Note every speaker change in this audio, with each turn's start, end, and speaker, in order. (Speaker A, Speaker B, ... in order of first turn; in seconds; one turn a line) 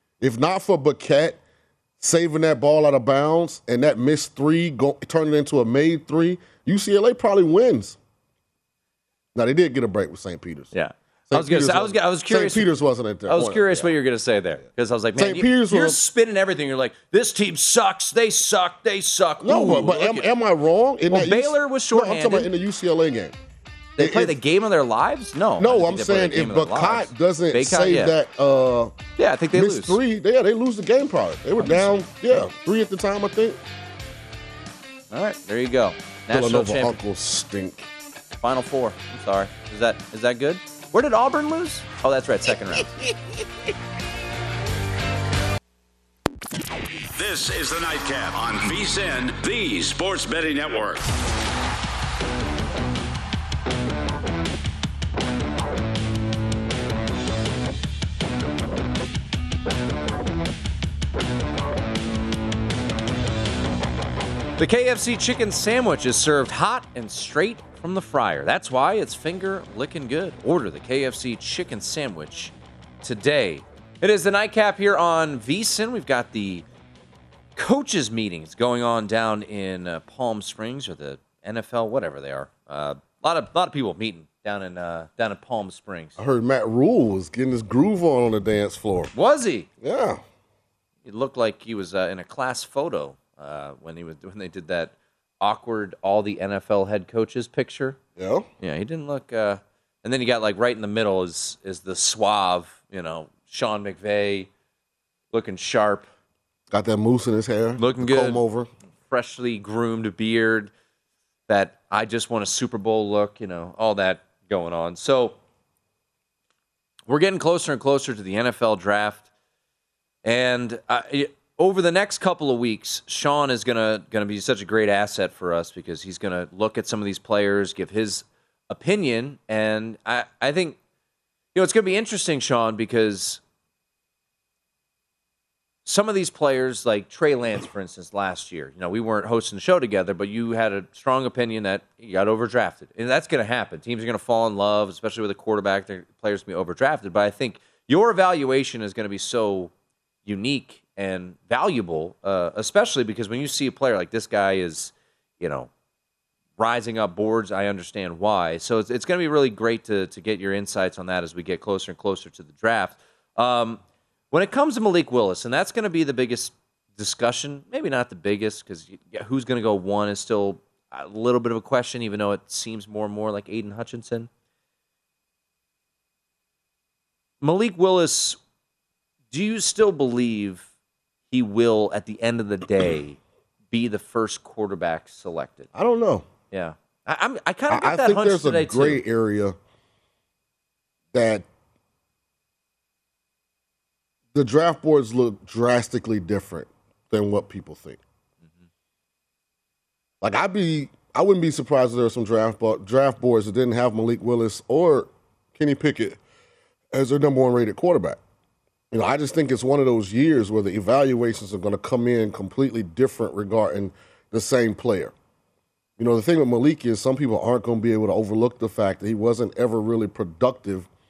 Speaker A: 0.2-1.4
Speaker A: 2.0-8.0
Speaker A: 9.3-10.7
Speaker B: 10.7-12.7
Speaker A: 11.3-13.9
Speaker B: 13.3-20.2
Speaker A: 15.2-16.0
Speaker A: 19.4-23.4
Speaker B: 21.1-22.5
Speaker B: 24.0-28.1
Speaker A: 24.0-24.3
Speaker A: 25.6-29.0
Speaker B: 29.2-30.0
Speaker A: 29.5-33.6
Speaker B: 31.6-32.4
Speaker B: 35.1-37.0
Speaker A: 36.3-37.9
Speaker B: 38.4-42.9
Speaker C: 47.1-51.1
Speaker B: 64.6-76.6
Speaker B: 77.5-86.2
Speaker A: 86.2-89.1
Speaker B: 89.1-89.7
Speaker A: 89.8-90.2
Speaker B: 91.0-98.0
Speaker A: 98.2-98.5
Speaker B: 98.6-104.5
Speaker B: 105.3-106.0
Speaker A: 106.7-108.7
Speaker B: 107.8-108.4
Speaker B: 109.1-110.7
Speaker B: 111.5-115.3
Speaker B: 117.1-119.2
Speaker B: 120.2-130.8
Speaker B: 131.5-133.4
Speaker B: 135.8-149.7
Speaker B: 150.2-155.7
Speaker B: 156.6-163.8
Speaker B: 164.3-174.3
Speaker B: 177.4-178.4
Speaker B: 179.3-180.7
Speaker B: 181.3-183.2
Speaker B: 183.7-185.7
Speaker A: 185.7-186.3
Speaker B: 186.5-189.0
Speaker A: 187.7-189.6
Speaker A: 191.1-191.5
Speaker A: 194.3-198.0
Speaker A: 200.2-206.2
Speaker A: 206.9-208.2
Speaker A: 208.9-215.1
Speaker A: 216.0-220.9